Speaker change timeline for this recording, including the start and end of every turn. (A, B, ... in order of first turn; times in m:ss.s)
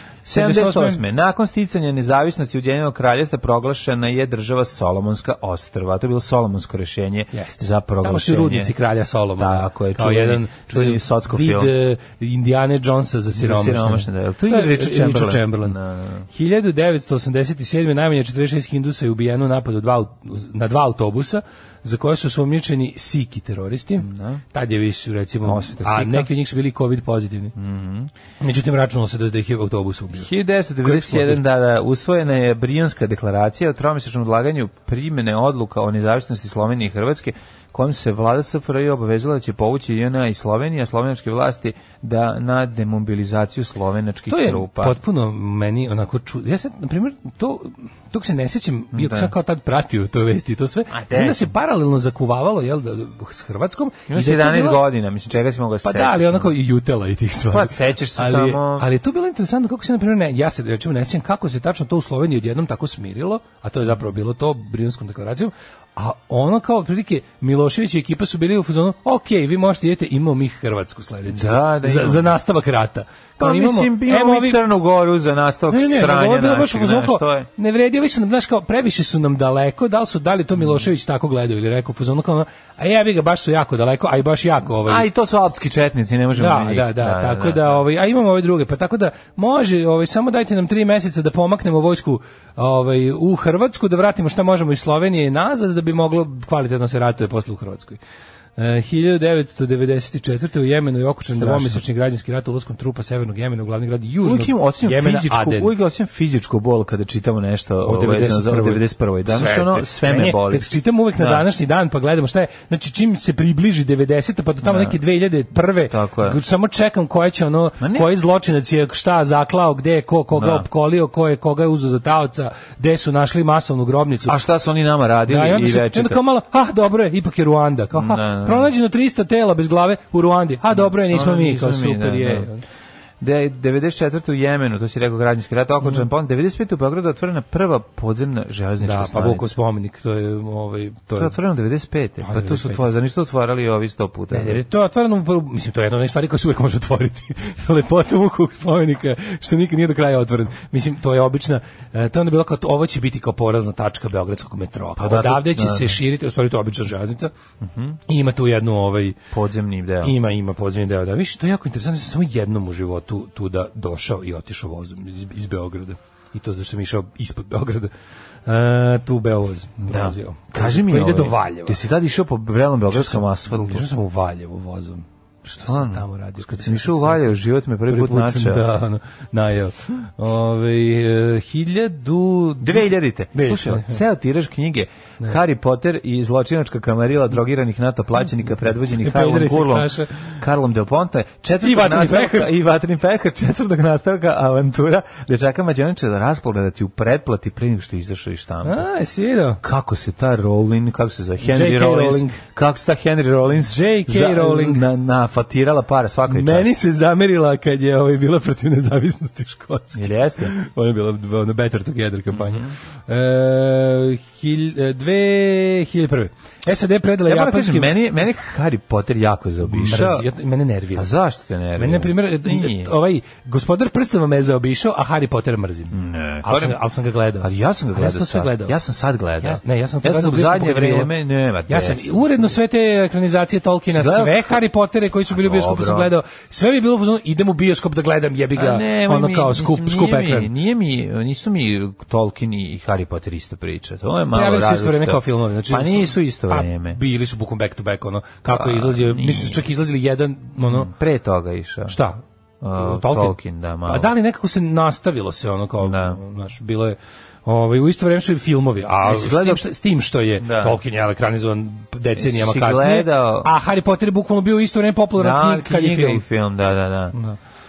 0:00.3-0:01.0 A
0:00.3-0:08.7 B
0:07.3-0:15.8 A
0:09.4-0:11.7 B
0:13.4-0:16.3 B
0:16.3-0:27.5 A
0:24.0-0:24.4 B
0:25.4-0:26.3 B
0:27.6-0:28.1 B
0:28.4-0:30.3 A
0:30.1-0:45.0 B
0:30.8-0:31.4 A
0:44.3-0:54.8 A
0:48.9-0:49.3 B
0:50.9-0:51.5 B
0:54.1-0:56.5 B
0:55.8-1:14.6 A
0:57.5-0:58.9 B
1:11.3-1:12.3 B
1:13.4-1:17.5 B
1:15.7-1:25.1 A
1:24.8-1:27.8 B
1:26.4-1:38.0 A
1:38.6-1:45.7 A
1:41.3-1:41.8 B
1:44.2-1:51.4 B
1:47.8-2:04.4 A
1:54.6-1:55.0 B
1:55.9-1:56.4 B
1:57.8-1:58.1 B
2:00.3-2:00.7 B
2:04.3-2:06.2 B
2:05.3-2:12.6 A
2:07.9-2:08.7 B
2:10.7-2:12.5 B
2:13.2-2:19.5 B
2:18.8-2:21.4 A
2:21.2-2:24.6 B
2:22.2-2:22.8 A
2:24.3-2:37.3 A
2:35.0-2:36.0 B
2:37.6-2:38.0 B
2:38.1-2:39.2 A
2:39.3-2:40.1 B
2:40.0-2:47.9 A
2:48.5-2:51.8 A
2:49.8-2:53.9 B
2:52.9-3:04.0 A
2:55.5-2:58.6 B
3:02.6-3:18.8 B
3:08.9-3:10.4 A
3:11.6-3:12.5 A
3:18.6-3:19.6 A
3:19.6-3:26.7 B
3:21.4-3:22.4 A
3:23.6-3:24.9 A
3:26.3-3:37.9 A
3:29.9-3:30.5 B
3:32.3-3:32.7 B
3:37.3-3:40.3 B
3:39.7-3:41.1 A
3:41.0-3:42.9 B
3:41.8-3:48.8 A
3:45.9-3:46.8 B
3:47.4-3:52.5 B
3:49.4-3:51.1 A
3:51.7-4:00.5 A
3:53.9-3:54.5 B
3:55.3-3:56.1 B
3:58.6-4:07.0 B
4:04.3-4:10.9 A
4:08.5-4:09.6 B
4:10.6-4:12.0 B
4:11.9-4:12.2 A
4:12.6-4:14.1 B
4:12.7-4:26.2 A
4:15.8-4:16.2 B
4:19.0-4:19.6 B
4:20.4-4:20.8 B
4:22.2-4:23.5 B
4:25.2-4:27.2 B